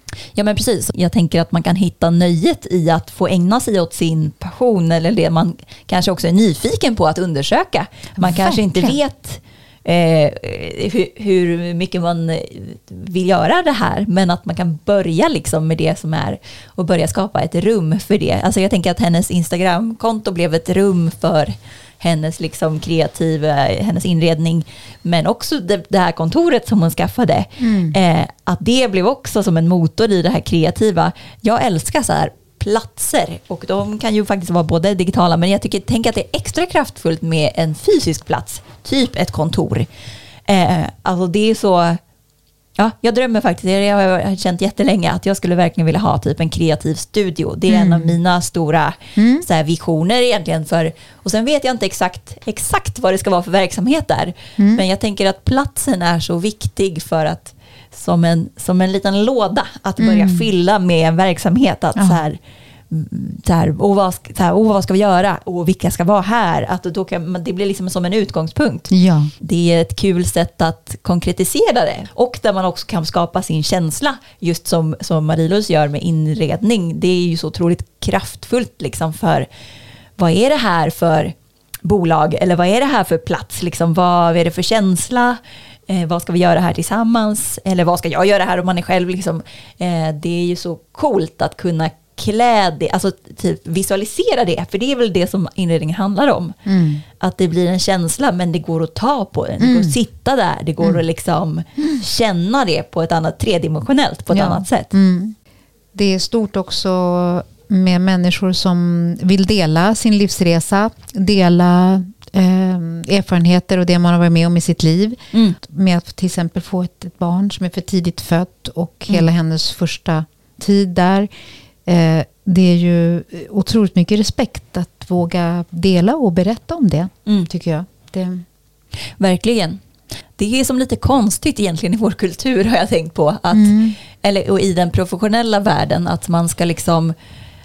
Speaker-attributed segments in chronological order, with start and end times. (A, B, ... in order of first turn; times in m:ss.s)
0:00.4-0:39.9 A
0:08.2-0:09.0 B
0:27.6-0:28.0 B
0:40.5-0:42.0 A
0:42.8-1:02.4 A
0:47.7-0:48.2 B
0:49.2-0:49.4 B
0:54.6-0:54.8 B
1:00.0-1:00.5 B
1:02.0-1:02.2 B
1:02.9-1:19.5 A
1:08.9-1:09.3 B
1:20.2-1:36.6 A
1:36.7-1:37.0 B
1:37.2-1:44.9 A
1:39.6-1:40.0 B
1:44.3-1:45.4 B
1:45.9-2:01.3 B
2:01.9-2:08.5 B
2:09.2-2:09.8 A
2:10.4-2:17.2 A
2:13.5-2:14.0 B